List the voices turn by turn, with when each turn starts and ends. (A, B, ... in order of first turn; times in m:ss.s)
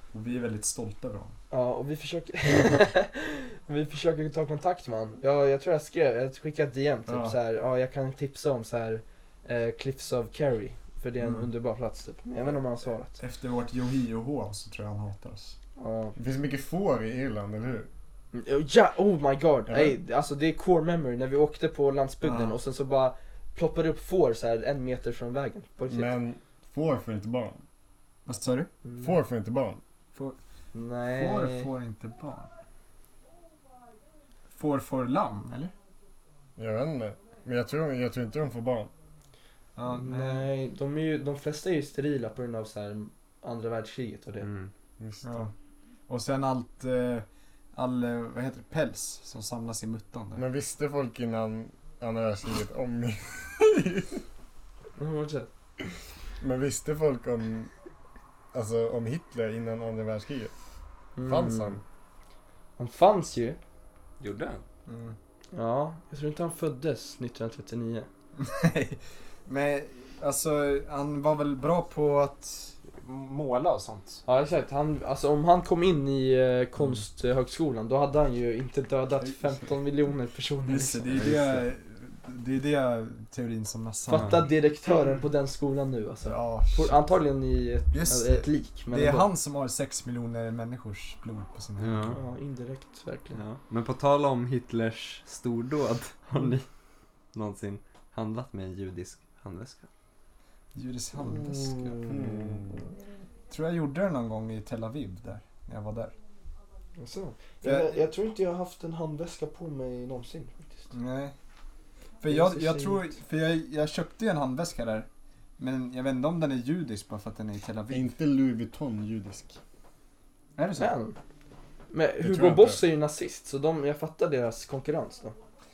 0:00.1-0:01.3 A
0:01.5-0:13.2 B
0:07.1-0:07.4 A
0:11.2-0:11.5 A
0:13.2-0:15.6 A
0:15.8-0:16.1 B
0:16.2-0:17.9 C
0:18.3-0:26.1 B
0:19.7-0:19.9 C
0:22.2-0:22.5 A
0:25.9-0:27.6 C
0:28.2-0:28.7 A
0:28.8-0:29.1 B
0:29.0-0:29.8 C
0:30.7-0:31.7 B
0:31.1-0:32.5 A
0:34.5-0:35.7 A
0:36.6-0:38.9 C
0:39.8-0:40.5 A
0:39.9-0:44.5 B
0:44.4-0:44.7 D
0:45.0-0:45.3 C
0:45.2-0:45.5 A
0:46.1-0:50.4 A
0:50.4-0:54.2 C
0:55.0-0:55.5 B
0:56.4-0:57.7 C
0:58.5-1:00.5 C
1:01.2-1:01.8 B
1:01.2-1:01.8 C
1:02.8-1:03.6 B
1:04.2-1:04.6 D
1:04.8-1:05.2 A
1:05.5-1:08.1 B
1:08.4-1:14.2 A
1:14.2-1:21.4 B
1:19.2-1:19.5 A
1:20.6-1:24.4 A
1:24.1-1:29.3 B
1:24.1-1:24.4 D
1:26.2-1:27.0 A
1:27.9-1:32.2 A
1:31.8-1:32.2 D
1:32.1-1:33.4 B
1:33.3-1:36.6 D
1:37.3-1:39.9 D
1:40.7-1:42.0 A
1:41.7-1:42.1 B
1:42.0-1:42.8 C
1:43.5-1:46.1 A
1:47.0-1:50.9 B
1:47.6-1:48.0 A
1:50.9-1:51.3 A
1:52.2-1:58.1 A
1:52.3-1:53.1 B
1:57.9-1:59.6 C
2:00.6-2:00.9 A
2:00.8-2:01.2 B
2:01.9-2:05.4 B
2:02.2-2:02.8 C